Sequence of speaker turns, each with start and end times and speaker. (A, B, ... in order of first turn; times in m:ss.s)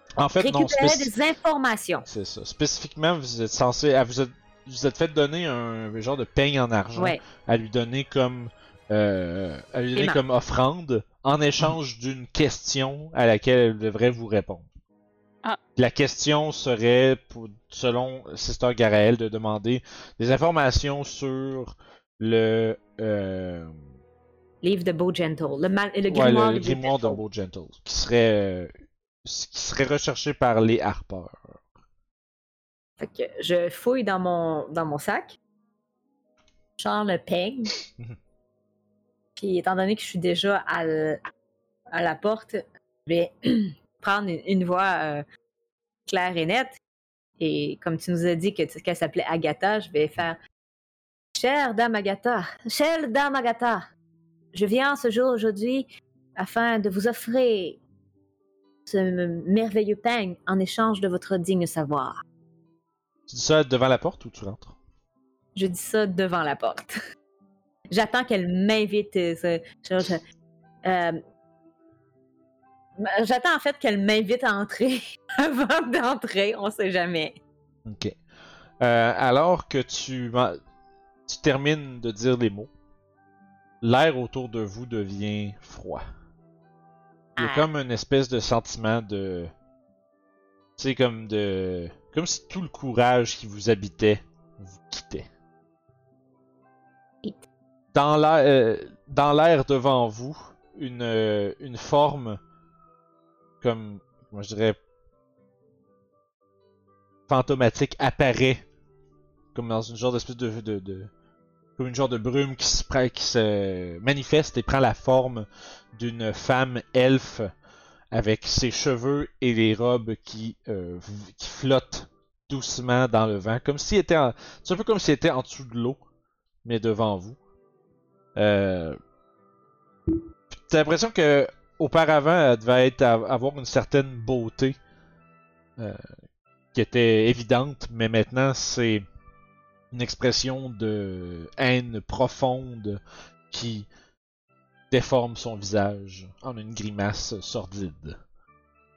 0:00.2-0:01.1 A
0:00.4-0:02.0 B
0:02.0-0:14.7 A
0:07.0-0:07.2 B
0:09.9-0:10.2 B
0:15.8-0:23.8 A
0:24.6-0:27.2 B
0:26.1-0:28.7 A
0:29.2-0:31.6 A
0:33.0-0:35.4 B
0:36.8-0:37.7 B
0:39.4-0:41.2 B
0:41.9-0:45.2 B
0:46.0-0:46.8 B
0:47.4-0:50.4 B
0:51.3-0:53.9 B
0:54.5-0:57.8 B
0:58.8-1:02.2 B
1:03.3-1:04.8 A
1:05.5-1:07.0 B
1:07.9-1:10.2 B
1:10.8-1:11.2 B
1:13.0-1:17.4 B
1:17.8-1:18.2 A
1:18.8-1:20.6 A
1:21.3-1:22.7 A
1:23.8-1:26.0 A
1:27.4-1:27.6 B
1:27.4-1:29.5 A
1:30.8-1:35.3 A
1:37.9-1:42.4 A
1:43.6-1:44.8 A
1:47.3-1:48.6 A
1:49.5-1:51.1 A
1:51.8-1:57.5 A
1:58.1-2:06.0 A
2:06.6-2:07.4 A
2:08.4-2:09.0 A
2:10.5-2:14.8 A
2:15.8-2:16.0 A
2:16.7-2:19.0 A
2:19.9-2:23.0 A
2:23.5-2:23.9 A
2:24.9-2:28.2 A